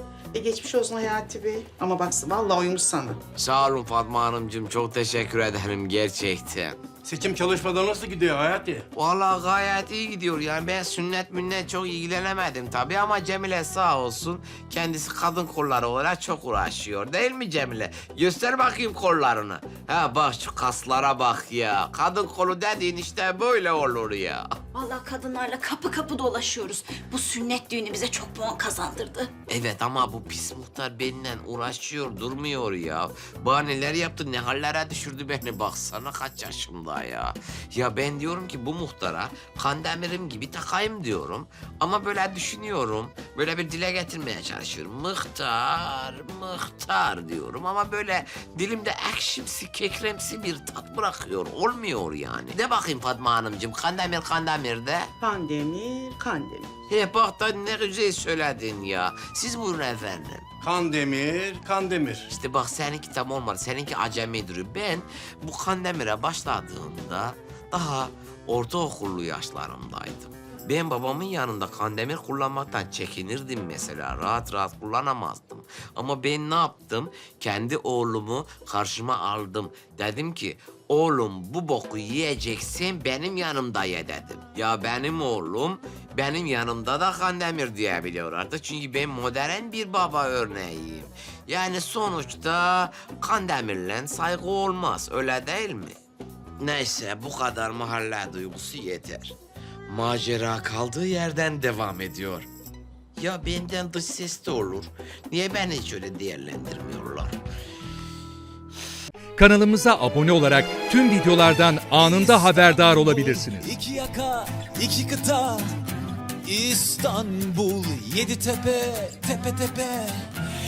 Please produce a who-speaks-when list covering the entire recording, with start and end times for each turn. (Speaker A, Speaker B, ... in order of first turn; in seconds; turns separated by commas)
Speaker A: 0.3-3.2, Speaker B: 3.4-6.8, Speaker C: 7.0-8.8, Speaker B: 8.9-24.5, Speaker D: 24.7-29.3, Speaker B: 29.5-55.1, Speaker A: 55.2-56.7, Speaker B: 56.9-60.4, Speaker C: 60.6-62.2, Speaker B: 62.3-95.9, Speaker B: 96.6-99.3, Speaker B: 99.9-102.5, Speaker B: 103.2-107.3, Speaker E: 109.4-113.7, Speaker F: 112.0-115.7, Speaker F: 116.4-120.2